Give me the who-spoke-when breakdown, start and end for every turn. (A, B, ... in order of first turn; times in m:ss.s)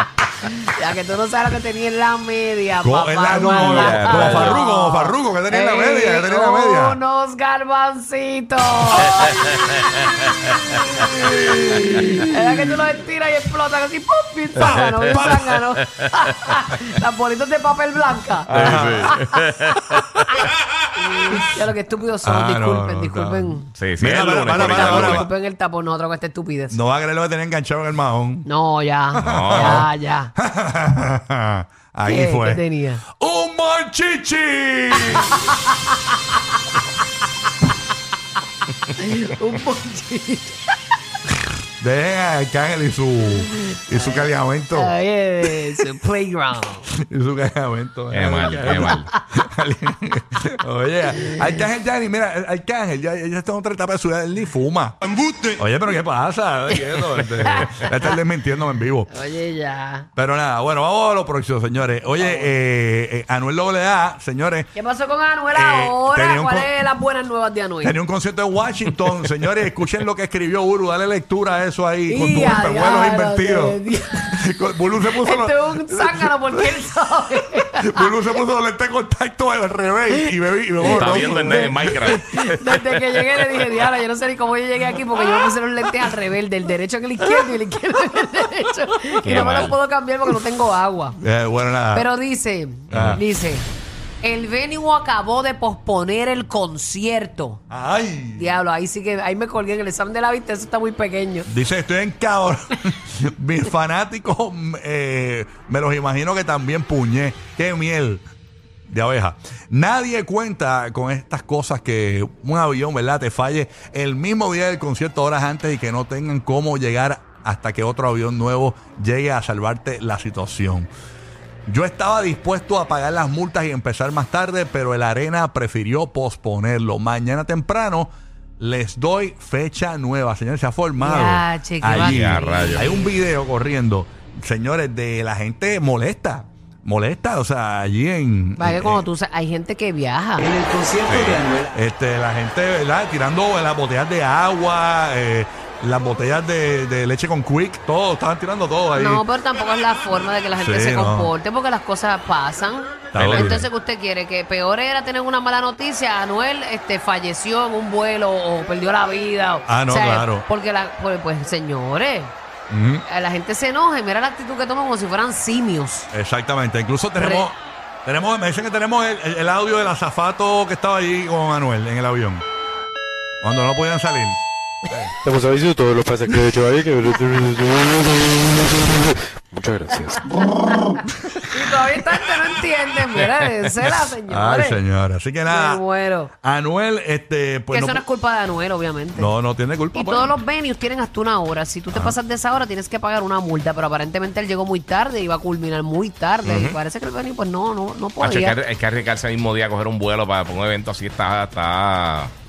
0:00.4-0:19.3 A
0:02.8-0:07.0 B
0:03.6-0:04.6 C
0:09.0-0:12.3 C
0:14.5-0:15.5 B
0:15.1-0:15.8 C
0:18.5-0:19.3 B
0:18.5-0:20.4 C
0:21.0-0:23.7 A
0:22.2-0:25.3 B
0:23.7-0:25.3 C
0:24.5-0:26.8 A
0:26.7-0:28.5 B
0:28.4-0:30.3 A
0:29.2-0:29.9 C
0:29.2-0:35.5 B
0:32.0-0:33.0 A
0:38.8-0:40.7 A
0:41.8-0:44.9 B
0:43.9-0:46.9 A
0:46.9-0:55.0 B
0:48.1-0:49.1 C
0:48.4-0:49.0 A
0:55.5-0:59.1 B
0:56.7-0:58.2 A
0:59.1-1:00.1 A
1:00.2-1:04.7 B
1:02.2-1:02.5 A
1:04.7-1:08.0 A
1:05.5-1:06.7 B
1:07.8-1:13.8 B
1:12.1-1:14.3 A
1:14.3-1:16.7 B
1:15.1-1:18.1 A
1:17.6-1:22.2 B
1:20.8-1:31.2 A
1:20.8-1:22.9 C
1:29.2-1:29.8 C
1:29.2-1:29.7 B
1:31.2-1:32.1 B
1:31.9-1:33.7 A
1:32.9-1:33.2 C
1:32.9-1:33.2 B
1:34.2-1:37.6 A
1:37.7-1:38.5 B
1:38.4-1:41.5 A
1:41.4-1:48.2 B
1:48.9-2:00.9 B
2:01.7-2:19.0 B
2:11.0-2:13.1 A
2:11.9-2:12.9 C
2:18.6-2:20.6 A
2:21.0-2:21.5 C
2:21.6-2:29.2 B
2:28.9-2:42.3 A
2:30.5-2:31.3 B
2:33.1-2:33.7 B
2:33.2-2:33.6 C
2:39.6-2:40.4 B
2:42.7-2:43.0 B
2:43.1-2:46.1 A
2:46.1-2:52.4 B
2:47.2-2:47.4 A
2:53.4-2:54.4 B
2:55.3-2:58.3 D
2:59.5-3:00.2 D
3:00.4-3:01.3 B
3:01.5-3:04.8 A
3:04.3-3:05.8 B
3:05.4-3:06.3 A
3:06.4-3:08.0 B
3:07.7-3:09.3 A
3:09.2-3:10.3 B
3:09.9-3:18.6 A
3:11.9-3:12.2 B
3:16.4-3:16.8 C
3:18.2-3:22.3 C